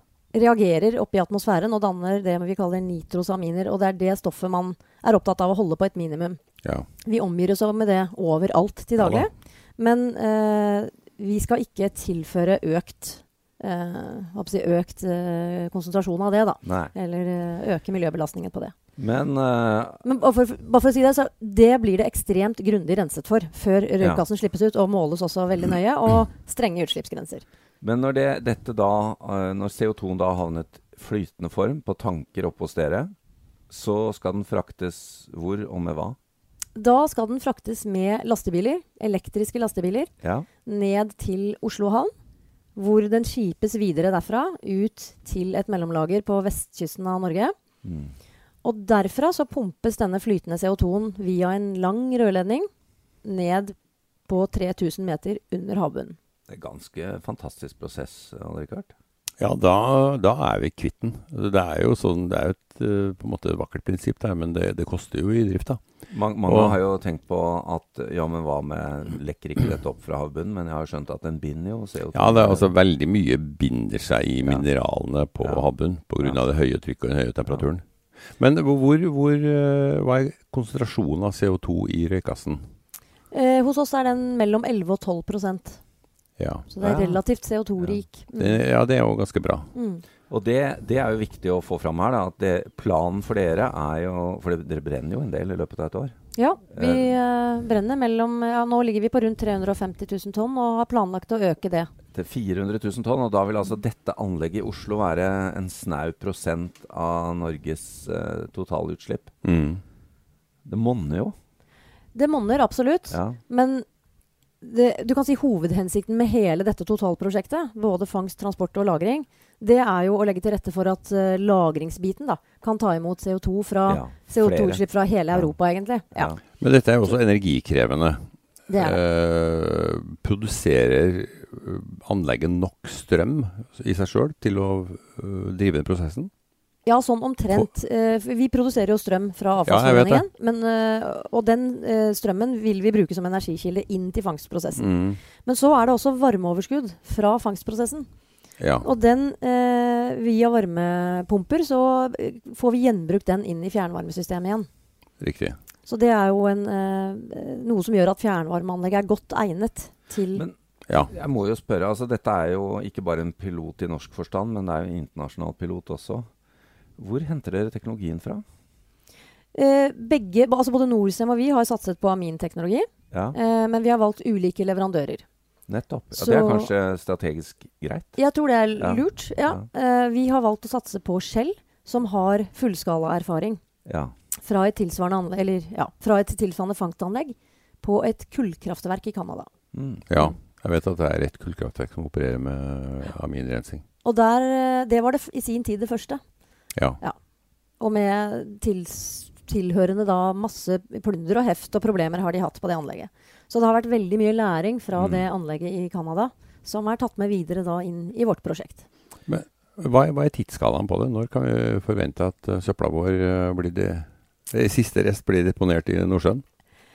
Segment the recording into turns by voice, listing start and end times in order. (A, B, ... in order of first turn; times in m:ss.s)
0:00.3-0:06.4 A
0:07.0-0:18.7 A
0:09.0-0:09.3 B
0:16.6-0:16.9 C
0:19.0-0:20.0 C
0:20.0-0:27.4 A
0:27.8-0:33.1 C
0:33.7-0:36.2 C
0:36.8-0:40.1 A
0:40.6-0:42.1 A
0:42.8-0:47.5 A
0:47.8-0:48.1 C
0:48.6-0:52.7 A
0:53.2-0:53.8 A
0:54.3-0:56.2 A
0:56.5-0:58.9 C
0:59.4-1:05.8 B
1:06.1-1:12.7 C
1:06.5-1:06.8 B
1:12.1-1:17.8 B
1:18.4-1:22.6 B
1:23.3-1:25.8 A
1:26.4-1:26.7 B
1:26.7-1:28.6 A
1:26.8-1:27.2 C
1:28.4-1:29.7 B
1:29.8-1:30.0 A
1:30.3-1:36.2 C
1:36.4-1:41.9 A
1:36.7-1:37.1 C
1:42.1-1:49.3 C
1:49.4-1:49.8 B
1:50.7-1:51.3 C
1:52.1-1:53.8 A
1:53.1-1:53.4 C
1:54.6-2:06.3 A
2:03.9-2:04.8 C
2:06.1-2:06.4 C
2:06.6-2:08.2 B
2:08.7-2:09.0 A
2:08.8-2:16.3 B
2:16.8-2:24.8 A
2:19.7-2:20.2 B
2:24.8-2:25.2 B
2:25.4-2:28.1 A
2:28.6-2:28.9 B
2:28.8-2:34.7 A
2:35.2-2:35.6 B
2:35.9-2:40.4 A
2:41.1-2:46.3 C
2:47.0-2:48.4 C
2:49.5-2:55.2 A
2:53.1-2:53.4 C
2:55.7-2:58.2 C
2:56.1-2:56.7 A
2:58.2-3:03.6 A
2:58.8-2:59.6 C
3:03.9-3:04.1 C
3:04.4-3:09.5 A
3:09.7-3:10.2 C
3:10.1-3:13.8 B
3:14.0-3:16.2 A
3:17.8-3:28.8 A
3:25.0-3:25.2 C
3:29.3-3:36.4 B